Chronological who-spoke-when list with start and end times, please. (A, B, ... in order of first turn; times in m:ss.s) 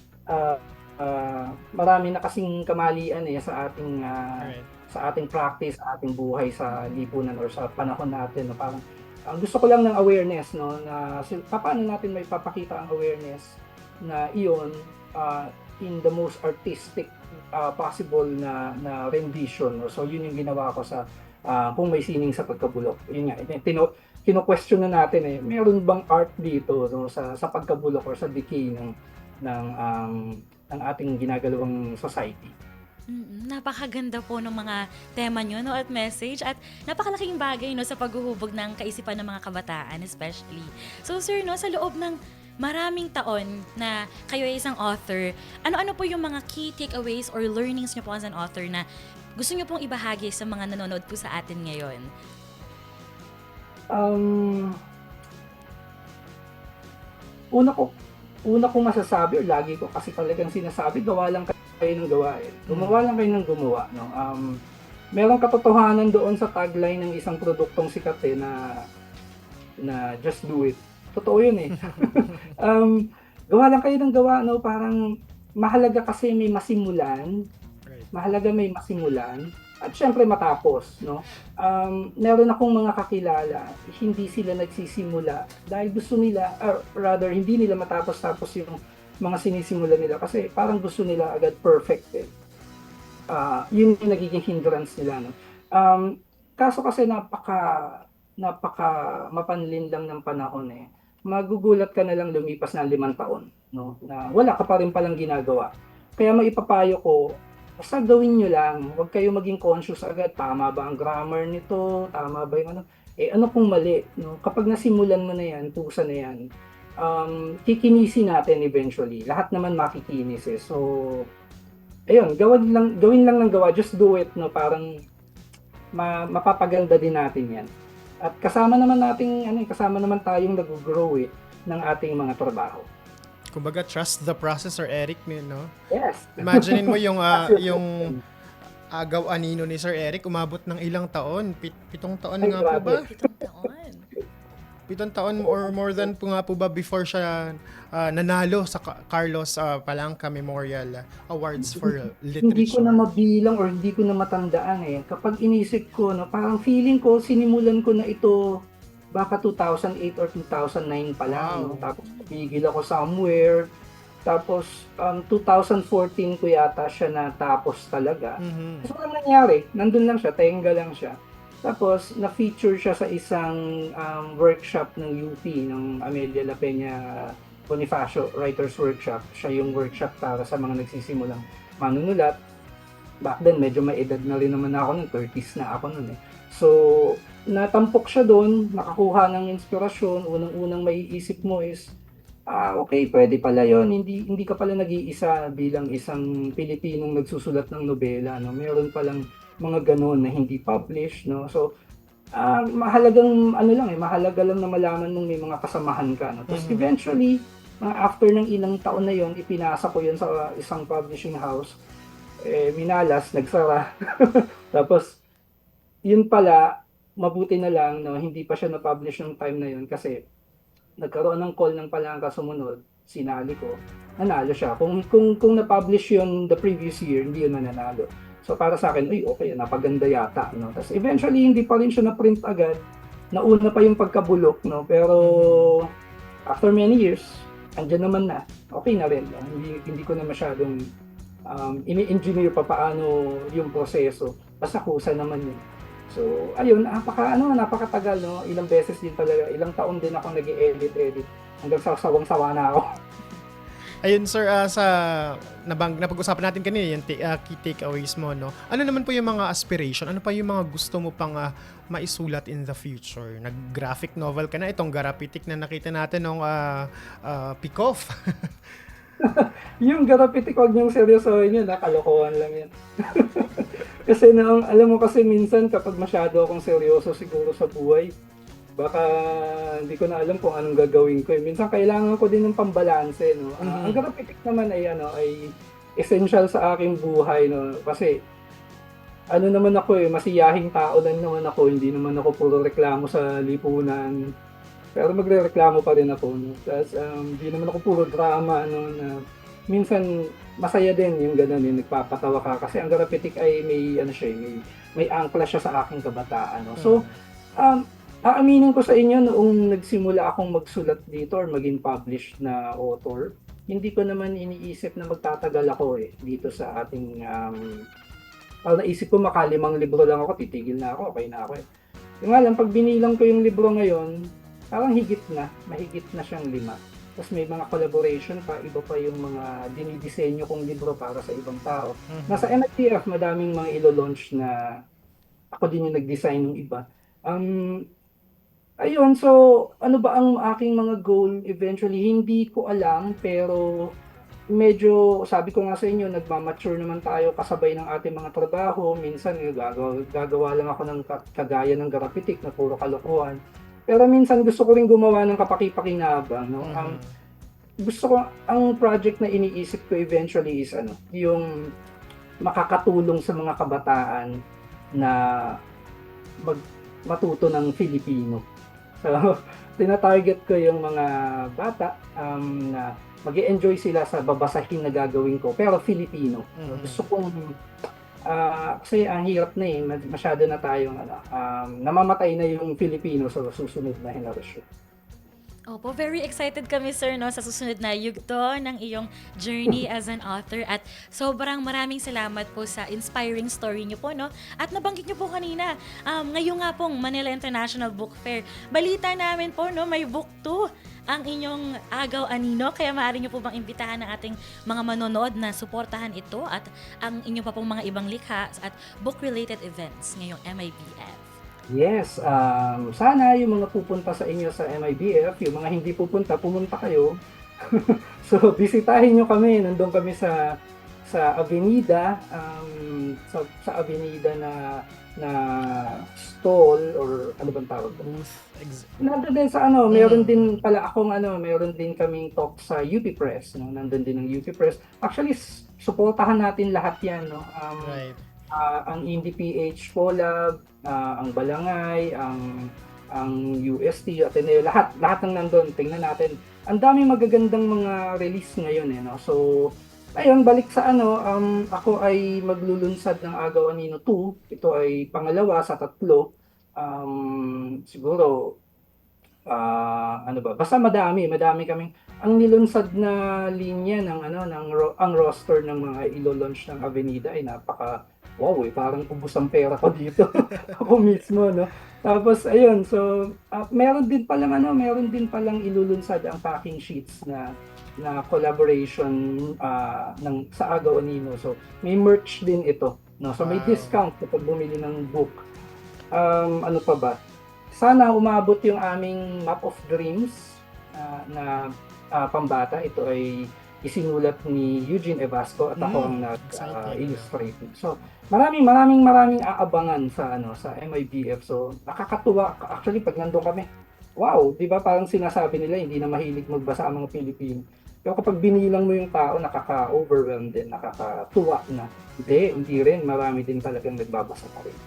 0:00.3-0:28.9 A
0:04.4-0:04.7 B
0:29.4-0:32.5 A
0:33.1-0:48.8 C
0:49.4-0:52.1 C
0:53.9-0:54.8 A
0:57.5-0:57.9 A
0:58.5-1:04.6 A
1:02.7-1:03.0 B
1:05.2-1:08.8 A
1:09.8-1:15.0 A
1:12.0-1:12.5 B
1:15.6-1:17.4 A
1:17.9-1:18.1 B
1:18.1-1:32.3 A
1:33.3-1:56.4 A
1:57.0-2:01.3 A
2:02.1-2:05.0 A
2:06.0-2:07.7 A
2:08.2-2:12.9 A
2:13.5-2:15.7 B
2:15.9-2:18.2 A
2:16.4-2:18.1 B
2:18.9-2:23.1 B
2:22.4-2:23.0 A
2:23.0-2:24.0 C
2:24.9-2:33.0 B
2:31.6-2:38.4 A
2:39.1-2:43.7 A
2:41.3-2:41.9 B
2:44.3-3:02.4 A
2:48.4-2:48.9 B
3:03.2-3:12.0 A
3:12.5-3:21.6 A
3:22.4-3:31.7 A
3:26.5-3:26.9 B
3:32.4-3:35.2 A
3:36.1-3:36.7 A
3:37.2-3:40.2 A
3:41.0-3:52.8 A
3:53.3-3:55.9 A
3:55.2-3:55.8 B
3:56.5-4:00.9 A
4:01.5-4:12.9 A
4:14.0-4:28.5 B
4:29.2-4:38.1 A
4:38.8-4:48.2 A
4:43.6-4:44.0 B
4:49.3-4:54.2 A
4:55.0-5:00.1 A
5:00.6-5:07.1 A
5:06.8-5:07.1 B
5:07.6-5:17.7 A
5:18.7-5:21.6 A
5:22.2-5:24.2 A
5:24.7-5:34.6 A
5:32.1-5:32.6 B
5:35.5-5:37.8 A
5:38.8-5:43.9 A
5:44.6-5:57.0 A
5:56.6-5:57.1 B
5:57.8-6:01.7 A
6:02.4-6:04.3 A
6:05.0-6:05.6 A
6:06.4-6:08.4 A
6:09.0-6:17.6 A
6:16.6-6:17.1 B
6:18.3-6:24.6 A
6:25.7-6:51.3 C
6:51.7-6:57.1 A
6:57.7-7:00.4 A
7:01.0-7:08.1 A
7:08.0-7:09.0 B
7:09.0-7:18.0 A
7:09.9-7:10.6 B
7:17.8-7:18.2 B
7:18.5-7:36.2 A
7:36.8-7:38.5 A
7:39.5-7:57.5 A
7:58.0-8:05.4 A
8:03.4-8:04.0 B
8:06.1-8:07.2 A
8:07.7-8:23.7 A
8:15.8-8:17.3 B
8:24.2-8:34.8 A